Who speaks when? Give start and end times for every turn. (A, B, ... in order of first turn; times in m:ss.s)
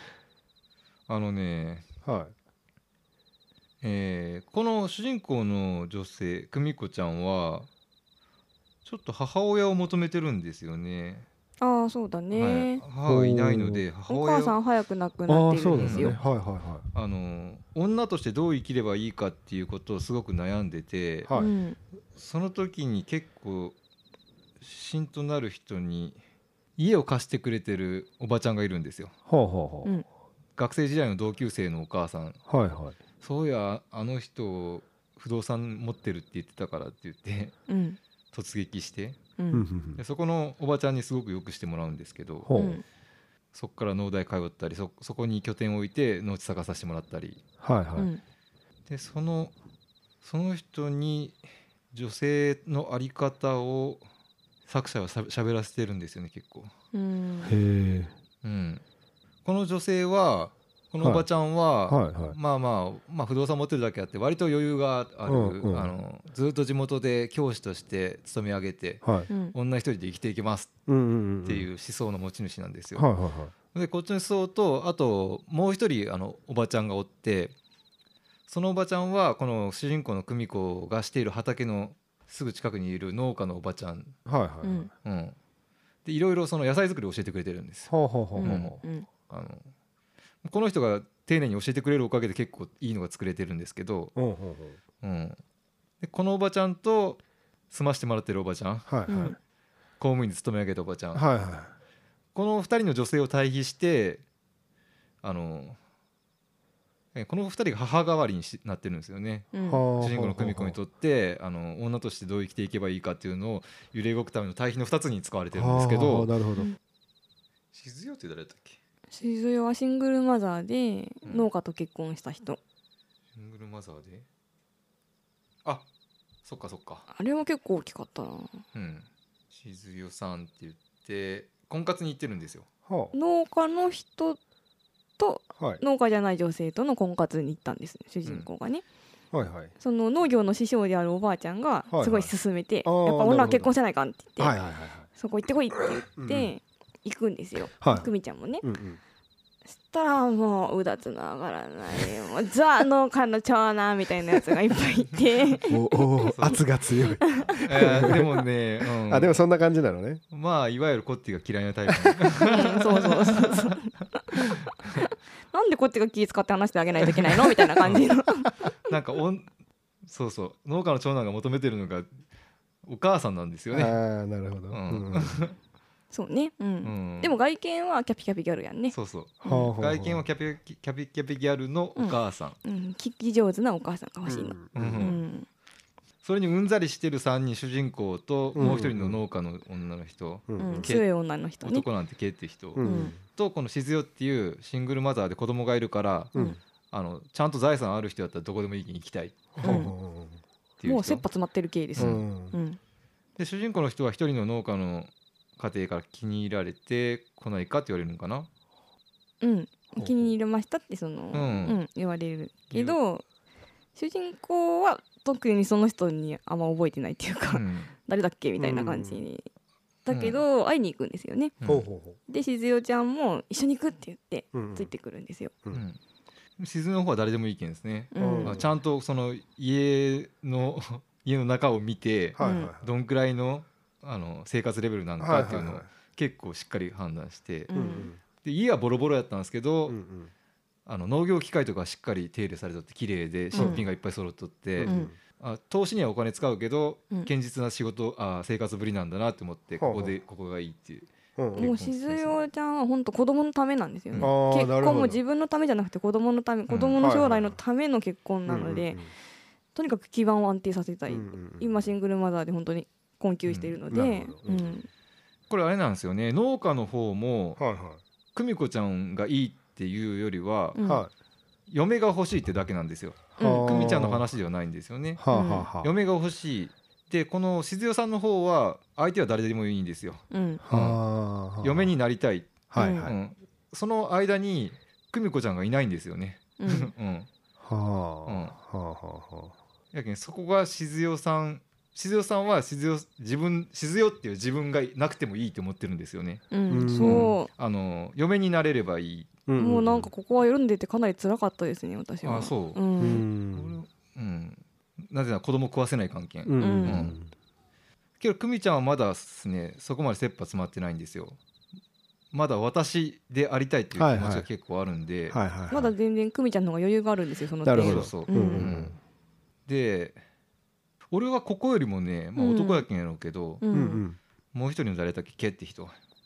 0:01.1-0:01.9 A
0:02.0-0:02.3 B
0:03.8-0:07.7 A
0:08.8-0:11.3 A
0:11.6-0:12.8 C
0:12.3-0:14.6 A
0:13.0-0:13.8 B
0:14.1-0:16.2 C
0:15.3-0:16.9 B
0:15.7-0:16.2 A
0:16.9-0:21.3 A
0:21.2-0:21.5 B
0:21.4-0:21.8 C
0:22.2-0:23.8 A
0:24.6-0:26.2 A
0:26.8-0:29.1 A
0:29.3-0:29.9 B
0:30.6-0:32.4 A
0:32.5-0:33.0 B
0:33.2-0:37.6 A
0:37.7-0:38.0 C
0:38.3-0:39.2 A
0:39.4-0:39.6 C
0:39.5-0:40.0 B
0:40.0-0:42.5 A
0:42.4-0:42.8 B
0:42.6-0:42.8 C
0:43.5-0:47.4 A
0:47.6-0:48.1 B
0:48.9-0:49.5 A
0:50.2-0:51.4 A
0:51.9-0:54.0 A
0:54.7-0:56.7 A
0:56.9-0:57.6 C
0:57.5-0:58.1 B
0:58.4-0:58.8 A
0:59.4-1:10.7 A
1:01.0-1:01.3 B
1:01.9-1:02.4 B
1:05.3-1:05.9 B
1:09.0-1:09.3 B
1:09.3-1:09.6 C
1:10.9-1:11.7 B
1:11.4-1:13.1 A
1:13.0-1:13.5 B
1:13.7-1:17.5 A
1:18.5-1:24.2 A
1:24.3-1:24.9 B
1:24.6-1:24.9 C
1:25.0-1:25.4 A
1:26.0-1:29.7 A
1:27.9-1:28.6 B
1:28.4-1:29.1 C
1:30.4-1:34.2 A
1:34.2-1:34.8 B
1:35.0-1:35.4 A
1:36.0-1:39.3 A
1:38.9-1:39.3 B
1:39.1-1:39.4 C
1:40.0-1:41.3 A
1:41.1-1:41.7 B
1:42.4-1:44.2 A
1:45.2-1:45.8 A
1:47.1-1:56.3 A
1:49.5-1:49.8 C
1:49.7-1:50.8 B
1:55.5-1:56.7 B
1:57.7-1:58.8 A
1:59.1-2:02.6 C
2:01.2-2:01.5 A
2:03.4-2:04.2 A
2:06.4-2:07.1 A
2:07.1-2:08.6 C
2:08.8-2:12.7 A
2:12.9-2:13.1 B
2:13.1-2:14.4 C
2:15.2-2:18.8 C
2:15.6-2:15.8 B
2:19.3-2:19.7 B
2:19.8-2:24.6 C
2:21.9-2:22.3 B
2:22.8-2:23.7 B
2:24.4-2:25.1 B
2:25.2-2:28.6 C
2:26.0-2:26.5 B
2:27.8-2:28.1 B
2:28.6-2:29.0 B
2:29.7-2:36.5 C
2:35.7-2:38.3 B
2:36.3-2:36.6 A
2:37.2-2:38.2 C
2:37.6-2:39.4 A
2:39.0-2:40.2 B
2:40.3-2:43.9 A
2:41.9-2:42.2 B
2:42.4-2:48.5 C
2:48.8-2:49.5 A
2:50.0-2:52.1 A
2:52.8-2:54.0 A
2:53.7-2:55.4 B
2:54.7-2:55.6 A
2:56.1-2:59.7 C
2:56.8-2:57.3 A
2:58.9-3:02.6 A
2:59.4-3:00.2 B
3:02.0-3:05.5 C
3:04.3-3:05.1 B
3:04.8-3:05.2 A
3:06.2-3:11.1 A
3:08.6-3:09.2 B
3:08.6-3:08.9 C
3:10.5-3:10.9 B
3:10.6-3:11.9 C
3:11.6-3:16.3 A
3:12.8-3:13.2 B
3:12.8-3:13.2 C
3:16.9-3:19.8 A
3:19.6-3:20.4 B
3:19.6-3:19.9 C
3:20.8-3:21.2 A
3:20.8-3:22.8 C
3:22.0-3:22.2 A
3:22.0-3:22.6 B
3:23.4-3:28.5 A
3:29.4-3:33.2 C
3:30.0-3:30.3 B
3:31.3-3:31.8 A
3:32.7-3:33.0 A
3:34.0-3:39.5 C
3:37.5-3:37.9 A
3:38.6-3:39.2 B
3:40.1-3:41.5 C
3:40.1-3:40.4 A
3:41.6-3:41.9 A
3:41.6-3:42.2 B
3:42.3-3:45.5 C
3:44.5-3:44.9 B
3:45.7-3:46.0 A
3:46.6-3:57.7 A
3:48.1-3:48.6 C
3:48.2-3:48.7 B
3:52.4-3:52.9 B
3:52.4-3:52.7 C
3:55.2-3:55.9 B
3:57.7-3:58.1 C
3:57.7-3:58.2 B
3:58.4-4:00.0 A
3:59.9-4:00.3 B
4:00.9-4:12.4 A
4:03.5-4:03.8 C
4:03.6-4:03.9 B
4:04.8-4:05.2 B
4:04.8-4:05.1 C
4:09.8-4:10.2 B
4:11.4-4:11.7 B
4:11.6-4:19.0 C
4:14.2-4:15.2 B
4:16.7-4:17.0 A
4:17.0-4:17.6 B
4:18.5-4:19.1 B
4:19.8-4:24.9 C
4:21.1-4:21.9 B
4:23.5-4:23.8 A
4:23.9-4:24.8 B
4:25.5-4:27.6 A
4:27.6-4:28.0 B
4:28.4-4:30.8 A
4:30.8-4:31.0 C
4:30.8-4:31.1 B
4:31.7-4:35.2 A
4:33.4-4:34.0 C
4:33.4-4:34.3 B
4:35.2-4:35.9 B
4:35.3-4:35.7 C
4:35.8-4:41.0 A
4:40.3-4:40.6 C
4:40.6-4:41.9 B
4:41.6-4:47.3 A
4:42.7-4:43.2 B
4:42.8-4:43.1 C
4:46.6-4:46.9 C
4:47.6-4:49.6 B
4:48.3-4:48.6 A
4:49.9-4:59.4 A
4:56.5-4:57.5 C
4:56.7-4:57.3 B
4:59.5-5:00.1 B
4:59.6-5:03.2 C
5:02.2-5:02.8 A
5:03.0-5:03.8 B
5:03.5-5:07.2 A
5:06.4-5:07.3 B
5:06.6-5:07.1 C
5:08.2-5:11.4 A
5:12.3-5:15.4 A
5:14.0-5:14.5 B
5:15.3-5:15.9 B
5:15.7-5:18.7 C
5:17.6-5:19.0 B
5:17.8-5:19.0 A
5:19.7-5:20.2 A
5:21.1-5:23.6 A
5:22.4-5:22.8 C
5:23.6-5:24.0 C
5:23.7-5:24.2 B
5:24.5-5:26.0 A